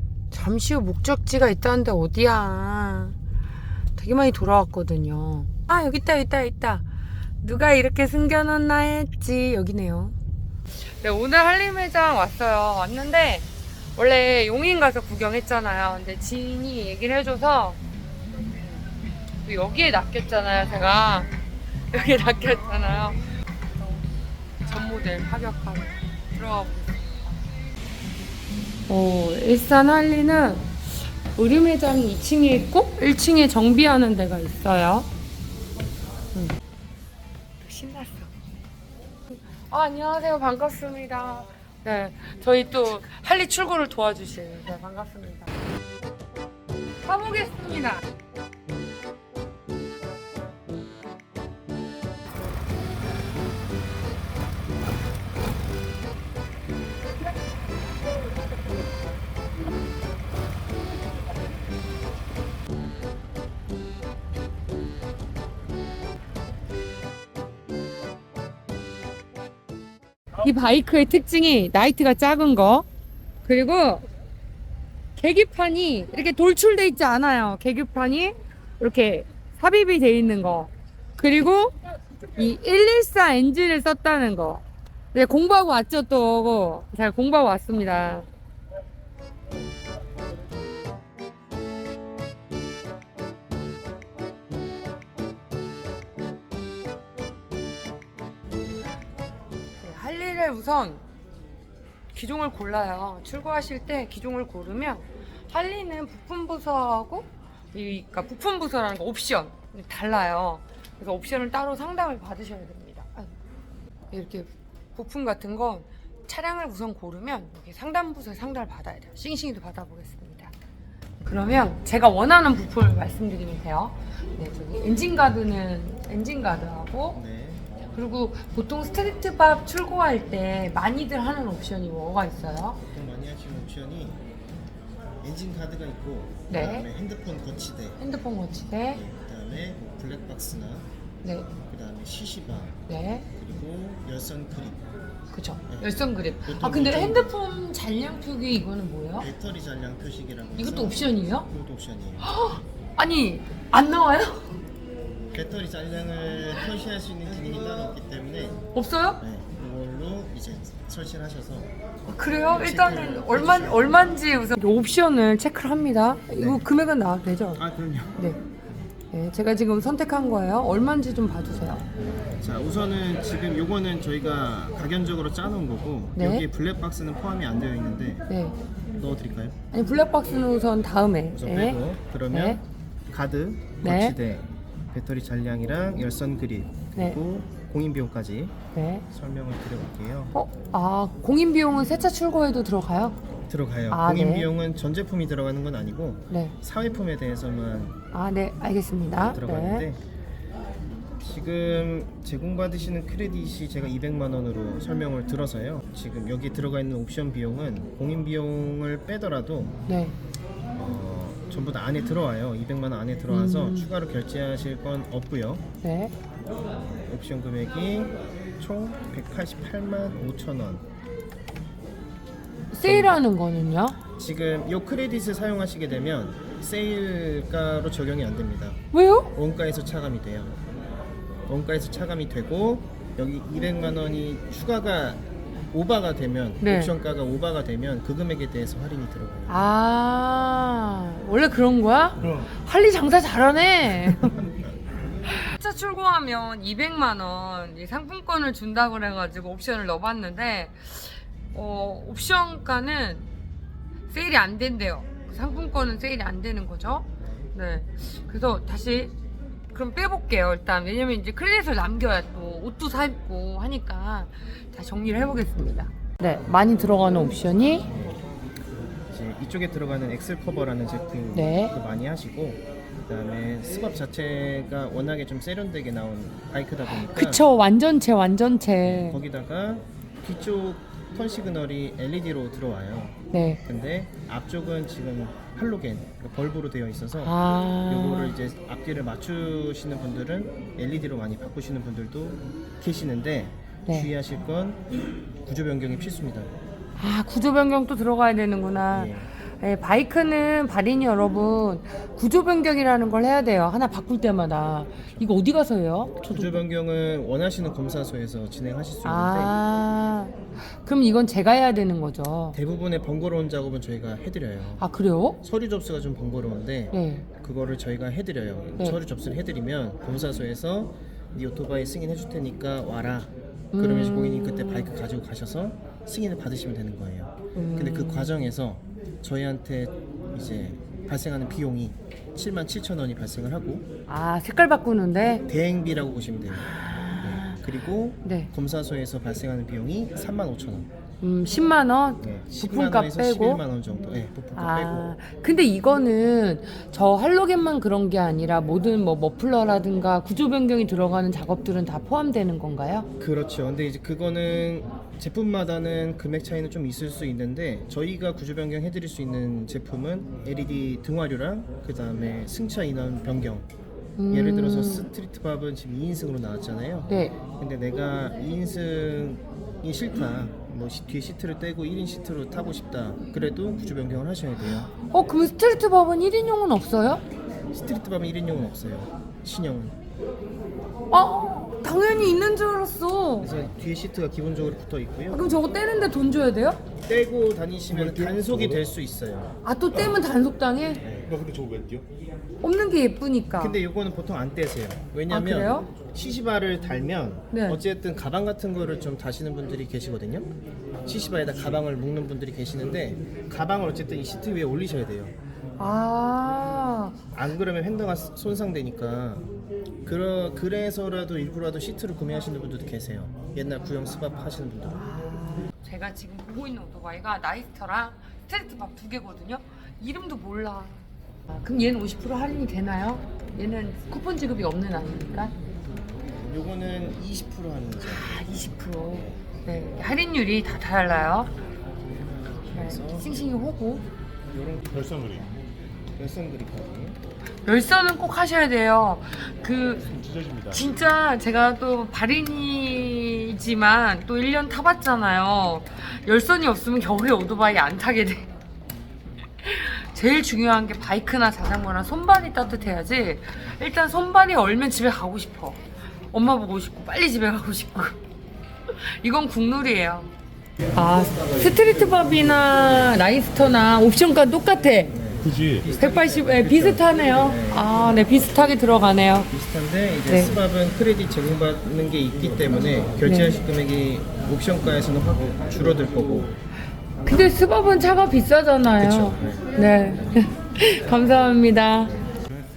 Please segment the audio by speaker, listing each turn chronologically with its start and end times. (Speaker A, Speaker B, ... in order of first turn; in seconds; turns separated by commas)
Speaker A: 0.3-3.2, Speaker A: 4.0-6.9, Speaker A: 7.4-10.2, Speaker A: 11.0-17.8, Speaker A: 19.4-21.3, Speaker A: 21.9-23.2, Speaker A: 24.6-27.4, Speaker A: 28.9-30.7, Speaker A: 31.4-35.1, Speaker A: 37.6-38.3, Speaker A: 39.7-45.5, Speaker A: 47.0-48.0, Speaker A: 70.4-72.9, Speaker A: 73.5-74.0, Speaker A: 75.2-81.7, Speaker A: 82.3-88.3, Speaker A: 99.8-101.0, Speaker A: 102.1-113.3, Speaker A: 114.1-120.5, Speaker A: 121.2-127.2, Speaker B: 127.1-127.7, Speaker A: 127.9-132.8, Speaker B: 132.9-134.2, Speaker B: 135.2-138.1, Speaker A: 136.5-136.9, Speaker A: 138.0-139.0, Speaker B: 138.7-140.9, Speaker A: 141.2-141.5, Speaker B: 141.5-144.8, Speaker A: 142.9-143.3, Speaker A: 145.3-149.3, Speaker B: 145.7-147.3, Speaker B: 149.2-152.3, Speaker A: 150.6-151.5, Speaker A: 152.2-154.6, Speaker B: 155.3-158.6, Speaker A: 158.7-159.2, Speaker B: 159.2-164.2, Speaker A: 162.1-167.6, Speaker B: 166.3-166.7, Speaker B: 167.5-168.3, Speaker A: 169.1-171.9, Speaker B: 172.4-178.3, Speaker A: 176.2-176.5, Speaker A: 178.3-178.6, Speaker B: 178.9-179.6, Speaker A: 179.7-182.6, Speaker B: 181.3-188.6, Speaker A: 183.8-184.2, Speaker A: 188.7-189.0, Speaker B: 189.1-190.3, Speaker A: 190.3-193.2, Speaker B: 193.5-198.0, Speaker A: 193.9-194.5, Speaker A: 196.3-196.6, Speaker A: 198.1-199.9, Speaker B: 199.1-200.0, Speaker B: 201.2-209.8, Speaker A: 209.9-210.2, Speaker B: 210.8-215.6, Speaker A: 213.3-213.9, Speaker A: 215.8-216.1, Speaker B: 216.8-220.8, Speaker A: 222.7-224.0, Speaker B: 222.8-223.2, Speaker B: 224.2-228.8, Speaker A: 228.9-229.3, Speaker B: 229.3-230.6, Speaker B: 231.5-239.7, Speaker A: 236.6-236.9, Speaker A: 239.5-244.4, Speaker B: 244.3-244.7, Speaker A: 245.3-253.3, Speaker A: 254.1-259.1, Speaker B: 257.2-257.5, Speaker A: 259.7-267.9, Speaker B: 267.7-268.2, Speaker B: 269.1-277.5, Speaker A: 271.3-271.7, Speaker A: 276.9-279.2, Speaker B: 278.8-294.8, Speaker A: 283.3-283.6, Speaker A: 287.2-288.4, Speaker A: 293.9-294.1, Speaker B: 295.4-296.5, Speaker A: 297.0-306.6, Speaker B: 298.9-299.3, Speaker B: 306.2-309.6, Speaker A: 309.0-312.6, Speaker B: 312.5-314.8, Speaker A: 314.8-315.4, Speaker B: 315.4-333.9, Speaker A: 316.9-317.3, Speaker A: 323.7-325.0, Speaker A: 327.5-328.3, Speaker A: 334.1-335.4, Speaker B: 335.5-340.9, Speaker A: 336.6-337.6, Speaker A: 338.2-338.5, Speaker A: 341.2-343.6, Speaker B: 342.2-345.1, Speaker A: 344.6-353.1, Speaker B: 353.2-363.7, Speaker A: 364.2-365.1, Speaker B: 364.3-374.9, Speaker A: 367.1-367.4, Speaker A: 375.1-377.2, Speaker B: 377.7-379.9, Speaker A: 381.1-383.5, Speaker B: 383.4-385.6, Speaker A: 385.3-386.8, Speaker B: 387.0-389.5, Speaker C: 387.9-388.5, Speaker A: 389.6-391.0, Speaker B: 391.0-391.4, Speaker C: 391.3-392.1, Speaker A: 392.6-393.8, Speaker B: 393.6-400.5, Speaker A: 395.3-395.9, Speaker A: 397.5-397.8, Speaker B: 401.1-405.4, Speaker A: 405.8-407.1, Speaker B: 407.3-409.5, Speaker B: 410.0-415.0, Speaker A: 415.0-421.1, Speaker A: 421.6-425.5, Speaker B: 426.2-429.9, Speaker A: 428.0-431.5, Speaker B: 432.6-433.3, Speaker A: 432.7-434.1, Speaker B: 434.5-435.4, Speaker B: 436.2-437.2, Speaker A: 437.6-440.1, Speaker C: 440.2-440.8, Speaker A: 440.7-448.5, Speaker A: 449.6-455.8, Speaker A: 456.3-458.2, Speaker A: 459.1-460.3, Speaker A: 460.9-465.2, Speaker B: 465.1-467.9, Speaker C: 465.5-465.8, Speaker A: 465.9-469.5, Speaker B: 469.5-476.6, Speaker A: 470.3-470.6, Speaker A: 473.2-473.6, Speaker A: 477.2-482.2, Speaker B: 479.0-479.7